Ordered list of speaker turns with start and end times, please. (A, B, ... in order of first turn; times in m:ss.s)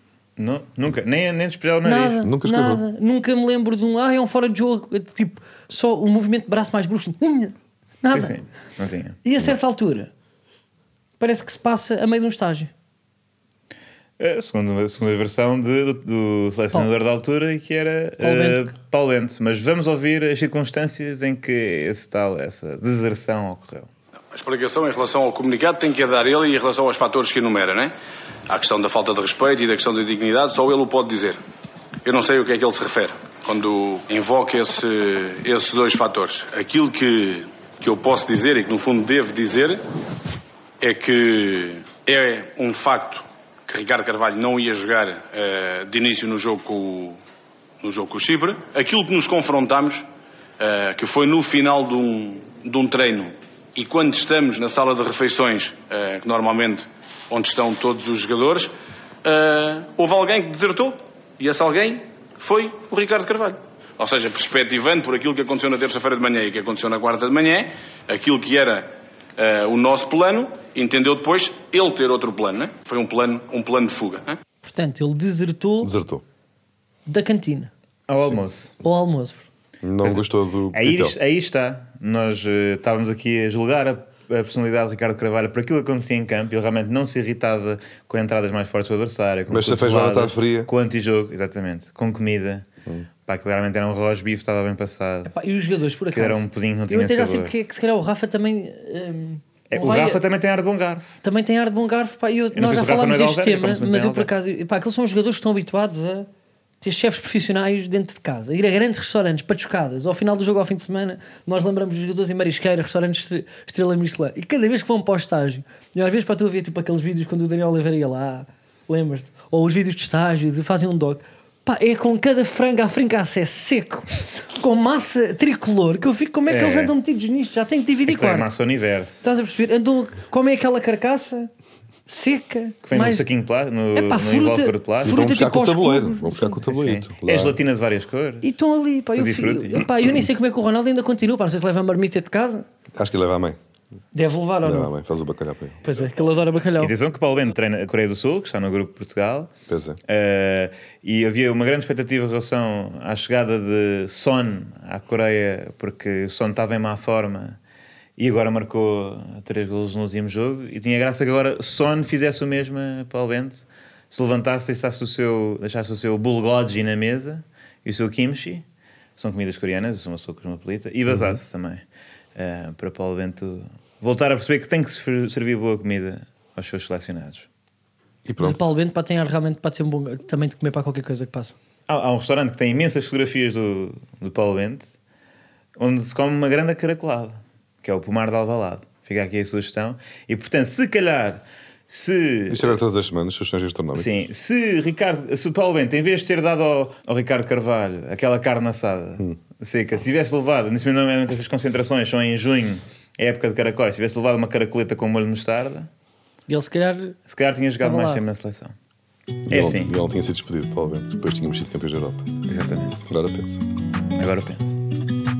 0:00.4-0:02.2 A
0:01.8-0:08.4 B
0:02.2-0:02.8 C
0:08.1-0:09.2 A
0:09.2-0:10.1 B
0:11.2-0:12.7 B
0:14.2-0:23.9 A
0:18.2-0:18.7 B
0:24.3-0:27.9 D
0:28.5-0:31.4 D
0:32.0-0:39.8 D
0:40.8-0:47.2 D
0:47.8-0:50.1 D
0:50.6-0:58.7 D
0:59.2-1:14.4 D
1:14.6-1:15.9 B
1:15.8-1:16.2 C
1:17.1-1:17.7 B
1:18.1-1:18.7 A
1:18.8-1:19.5 B
1:19.8-1:21.2 C
1:20.0-1:32.6 A
1:29.5-1:30.7 C
1:33.2-1:35.3 A
1:35.2-1:40.2 B
1:36.1-1:37.5 A
1:39.7-1:41.2 A
1:41.2-1:46.3 B
1:42.5-1:44.3 A
1:46.8-2:08.5 B
2:06.5-2:06.9 A
2:08.0-2:09.3 A
2:09.2-2:11.5 B
2:12.1-2:13.3 B
2:12.8-2:15.2 A
2:13.9-2:16.6 B
2:15.0-2:17.6 C
2:16.6-2:18.4 A
2:18.4-2:22.6 B
2:19.2-2:19.8 A
2:22.9-2:23.6 C
2:24.1-2:24.9 B
2:24.6-2:25.8 C
2:25.8-2:26.9 B
2:26.8-2:29.5 A
2:29.7-2:30.0 C
2:30.1-2:37.6 A
2:38.2-2:48.6 A
2:49.2-2:51.8 A
2:52.4-2:57.5 A
2:58.2-2:58.7 C
2:58.4-3:01.5 B
3:01.9-3:04.9 A
3:05.8-3:12.8 A
3:12.5-3:14.1 C
3:13.9-3:25.9 A
3:26.5-3:27.2 B
3:27.3-3:28.7 A
3:27.8-3:28.2 B
3:29.5-3:32.3 C
3:29.5-3:29.9 A
3:32.5-3:33.0 A
3:33.1-3:33.6 C
3:34.2-3:34.8 A